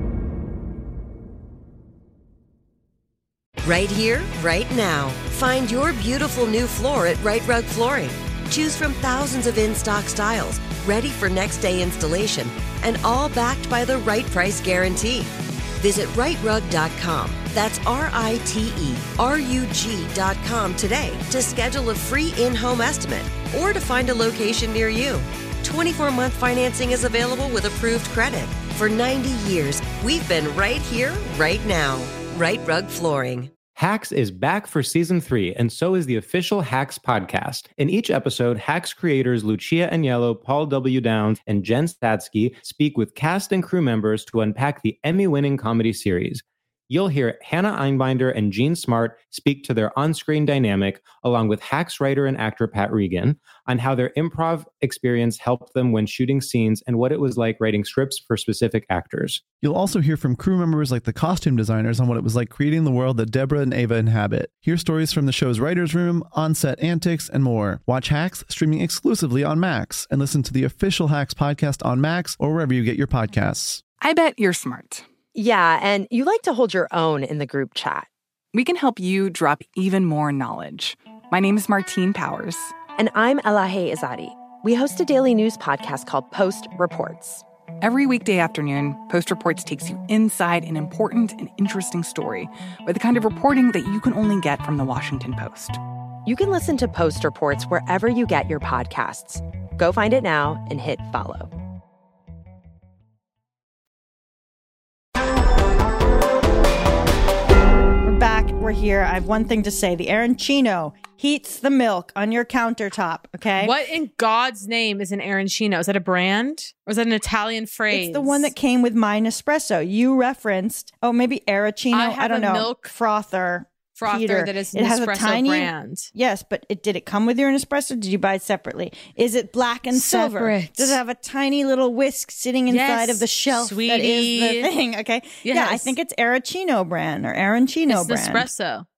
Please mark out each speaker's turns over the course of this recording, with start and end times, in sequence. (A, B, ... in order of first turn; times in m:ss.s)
0:03.6-0:33.5 A
0:33.8-0:59.4 B
0:59.6-1:13.8 C
1:14.0-1:15.0 D
1:15.4-1:18.1 E
1:18.5-1:22.8 D
1:23.0-1:27.4 E
1:27.8-1:35.8 D
1:36.3-1:41.5 E
1:48.0-1:53.8 F
1:53.6-1:58.5 G
1:57.9-2:18.5 F
2:01.9-2:02.9 G
2:04.0-2:06.1 G
2:09.9-2:11.0 G
2:12.7-2:14.7 G
2:15.4-2:15.9 G
2:17.9-2:18.9 G